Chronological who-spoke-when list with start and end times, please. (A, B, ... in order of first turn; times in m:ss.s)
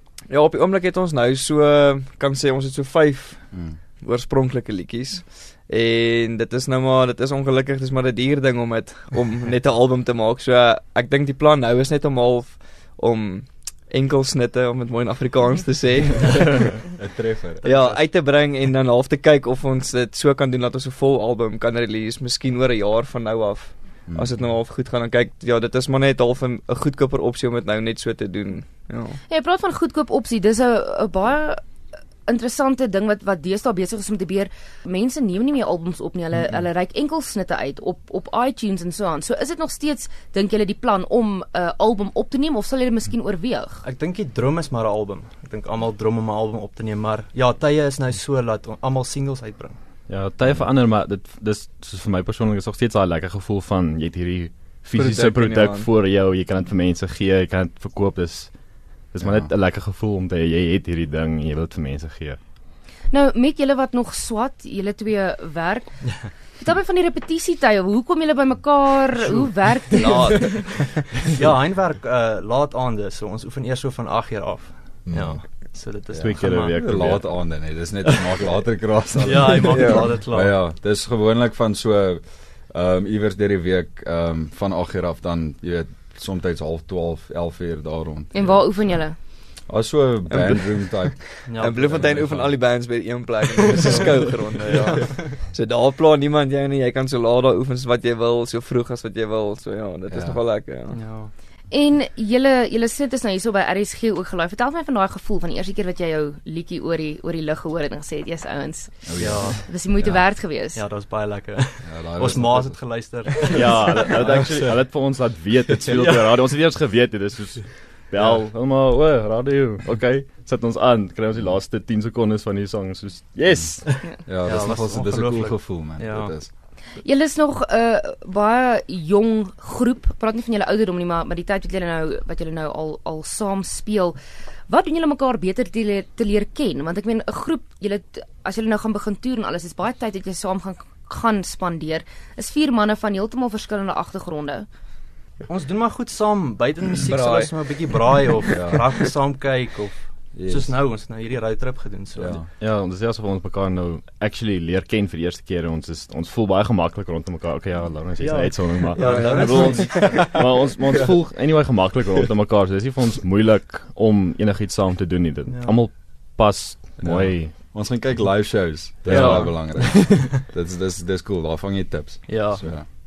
0:00.3-0:16.8 A
0:03.5-0:03.8 B
0:16.9-0:17.6 B
0:17.6-0:18.2 C
0:17.6-0:29.2 A
0:24.1-0:24.4 B
0:29.3-0:31.6 D
0:32.2-0:43.8 D
0:43.8-0:49.8 C
0:50.1-1:02.4 E
0:54.9-0:55.9 A
0:59.2-0:59.5 B
1:03.1-1:10.7 D
1:09.2-1:17.1 C
1:15.0-1:32.6 B
1:16.1-1:17.6 E
1:19.2-1:20.6 C
1:19.7-1:20.0 A
1:28.3-1:29.3 D
1:30.3-1:41.0 A
1:31.4-1:32.4 C
1:34.6-1:35.4 C
1:40.1-1:40.4 B
1:40.9-1:41.3 C
1:41.7-1:50.8 D
1:49.0-1:50.2 B
1:49.2-1:55.2 C
1:51.8-1:52.9 B
1:53.5-2:04.1 E
1:55.9-1:56.3 C
1:58.2-1:58.4 C
2:04.2-2:06.5 B
2:04.4-2:06.3 C
2:07.0-2:24.7 D
2:25.5-2:32.4 C
2:27.0-2:28.0 A
2:28.5-2:28.8 B
2:30.3-2:30.8 B
2:32.1-2:32.5 B
2:32.6-2:47.5 E
2:38.2-2:40.4 C
2:39.0-2:40.4 A
2:45.5-2:45.8 C
2:47.0-2:52.9 B
2:49.1-2:49.5 A
2:49.1-2:49.5 E
2:49.1-2:49.5 C
2:52.3-2:52.6 C